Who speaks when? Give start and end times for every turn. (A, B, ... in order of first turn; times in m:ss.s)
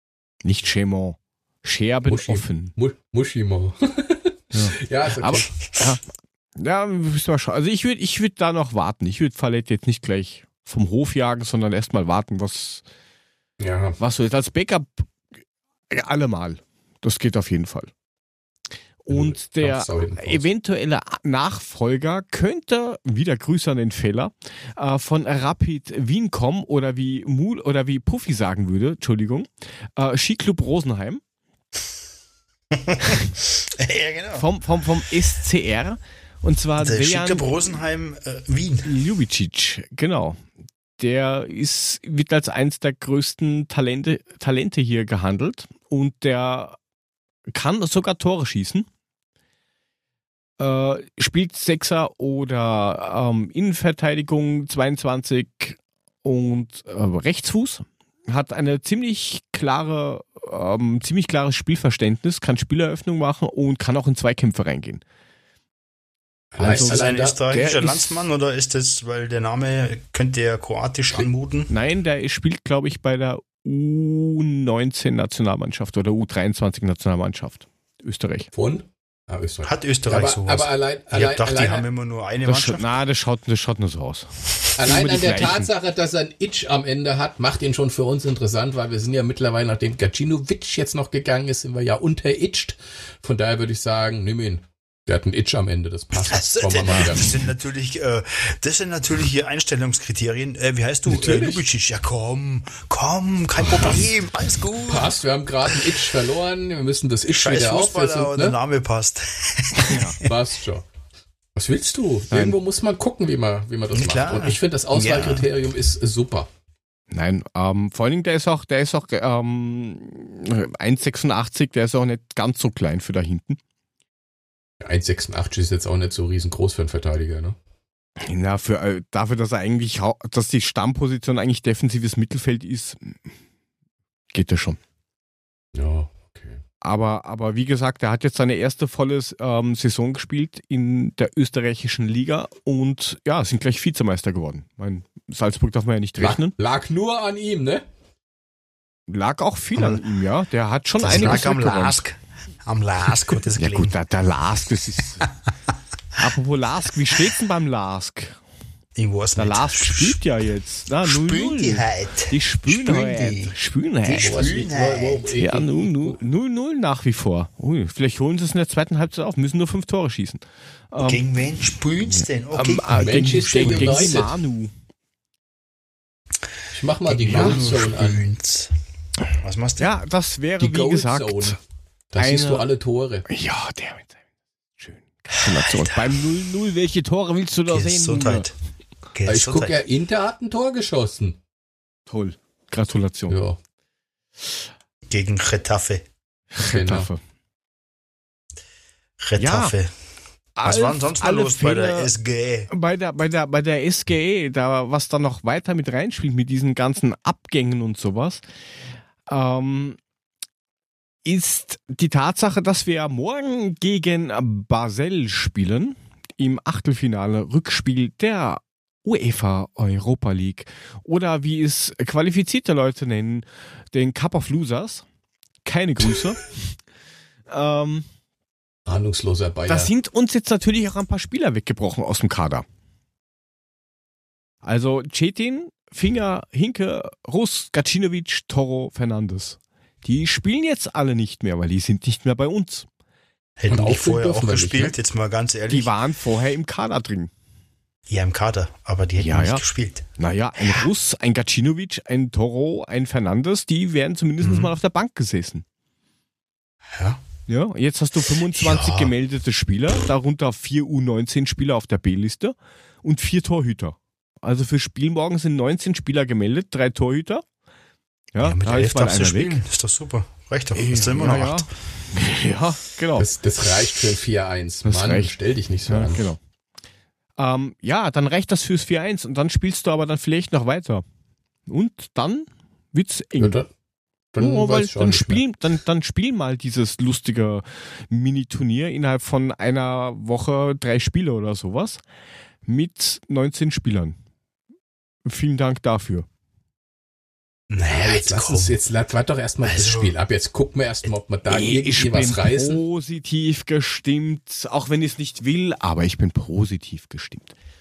0:00.4-0:02.7 A
0:02.1-0:05.5 B
0:04.5-0:06.0 A
0:06.6-0:12.8 A
0:13.6-0:14.0 B
0:14.0-0:15.1 A
0:15.9-0:17.9 A
0:19.0-0:31.2 A
0:19.1-0:20.4 B
0:32.8-0:34.5 C
0:34.4-0:37.6 A
0:36.8-0:38.9 C
0:38.8-0:40.4 A
0:41.0-0:46.8 A
0:47.5-0:48.9 A
0:50.6-1:05.0 A
1:06.5-1:07.4 B
1:06.6-1:08.0 A
1:06.6-1:11.7 C
1:11.7-1:18.5 A
1:18.5-1:21.8 B
1:19.6-1:23.0 C
1:22.4-1:25.7 A
1:24.8-1:37.3 B
1:36.3-1:45.1 C
1:41.1-1:41.6 B
1:43.6-1:44.0 B
1:44.9-1:48.6 B
1:47.3-1:50.1 C
1:49.8-1:50.2 A
1:50.2-1:50.9 B
1:51.6-1:56.5 B
1:52.3-1:52.6 A
1:53.9-1:55.5 C
1:57.1-2:03.6 A
2:04.8-2:07.6 B
2:08.2-2:13.3 A
2:14.3-2:14.8 A
2:15.8-2:16.6 B
2:16.8-2:26.5 A
2:26.2-2:27.8 B
2:29.1-2:32.0 A
2:29.8-2:30.0 C
2:31.0-2:34.0 C
2:33.6-2:35.3 A
2:36.2-2:38.4 A
2:39.0-2:40.2 C
2:39.4-2:44.6 A
2:41.0-2:45.3 C
2:44.2-2:46.2 B
2:45.4-2:51.2 A
2:51.0-2:54.3 C
2:52.1-2:54.7 A
2:52.9-2:54.3 B
2:56.7-2:58.2 B
2:57.1-2:58.7 C
2:57.3-2:57.6 A
2:59.3-2:59.9 C
2:59.8-3:01.6 A
3:00.6-3:01.6 B
3:02.1-3:03.2 B
3:02.2-3:02.7 A
3:03.3-3:04.2 A
3:04.8-3:08.5 A
3:05.7-3:06.2 C
3:07.7-3:08.5 C
3:09.1-3:09.8 C
3:09.3-3:11.4 B
3:12.1-3:13.4 A
3:13.3-3:13.6 B
3:15.1-3:16.0 C
3:16.5-3:17.2 A
3:16.6-3:17.1 B
3:19.2-3:19.9 C
3:19.4-3:19.8 A
3:20.6-3:22.1 A
3:20.6-3:22.7 C
3:22.7-3:28.4 A
3:29.3-3:30.0 A
3:31.2-3:45.0 A
3:45.6-3:46.8 A
3:47.5-3:48.1 A
3:48.9-3:49.9 B
3:49.7-3:52.6 A
3:54.6-4:02.9 A
4:03.6-4:05.9 C
4:03.7-4:05.0 B
4:05.7-4:07.3 A
4:08.1-4:10.9 C
4:09.2-4:09.6 A
4:10.2-4:15.6 A
4:14.4-4:14.7 C
4:16.9-4:17.2 C
4:17.5-4:27.4 A
4:18.5-4:19.1 C
4:28.3-4:29.6 A
4:28.4-4:31.7 C
4:30.7-4:33.3 A
4:33.2-4:36.2 B
4:34.9-4:35.3 A
4:35.9-4:36.4 A
4:37.4-4:41.0 A
4:41.7-4:43.6 A
4:43.4-4:43.7 B
4:44.3-4:45.4 B
4:44.4-4:52.0 A
4:52.7-4:54.2 A
4:55.3-4:56.3 A
4:57.7-4:58.8 C
4:57.8-5:02.8 B
4:59.6-5:00.1 C
5:01.5-5:07.6 A